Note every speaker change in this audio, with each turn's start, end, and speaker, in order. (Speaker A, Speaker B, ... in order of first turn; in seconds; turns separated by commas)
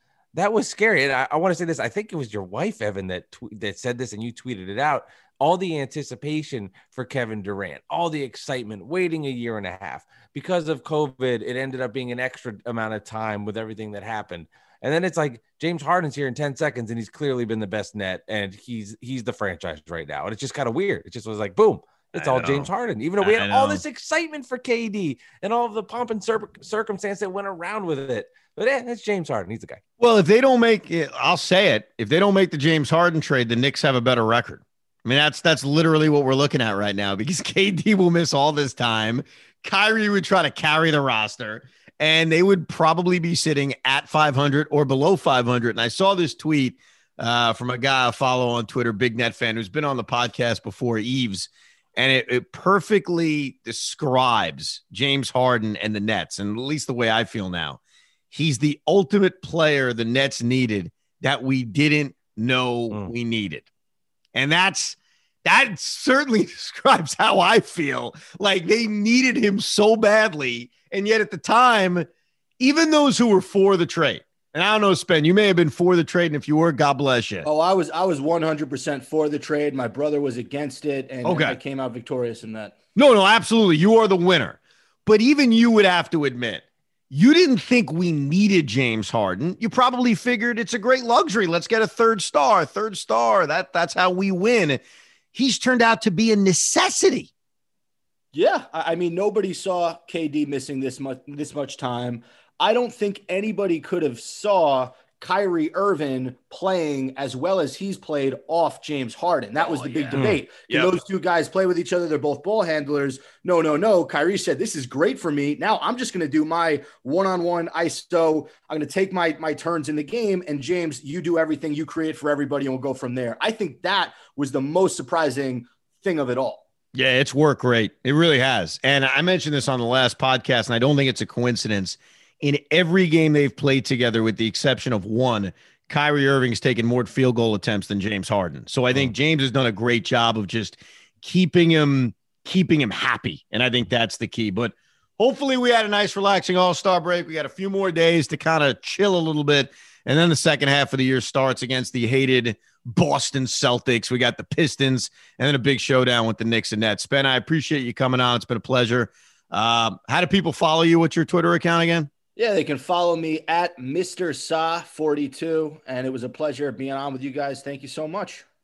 Speaker A: 0.3-29.8, Speaker B: 22.1-22.7, Speaker B: 23.2-23.8, Speaker B: 30.0-57.8, Speaker B: 58.3-63.6, Speaker B: 64.3-72.1, Speaker B: 72.6-77.5, Speaker C: 77.4-82.7, Speaker B: 81.2-81.6, Speaker B: 82.9-94.8, Speaker B: 95.3-97.3, Speaker C: 98.3-126.6, Speaker B: 109.6-111.0, Speaker A: 110.2-110.4, Speaker B: 126.9-162.1, Speaker C: 162.3-168.4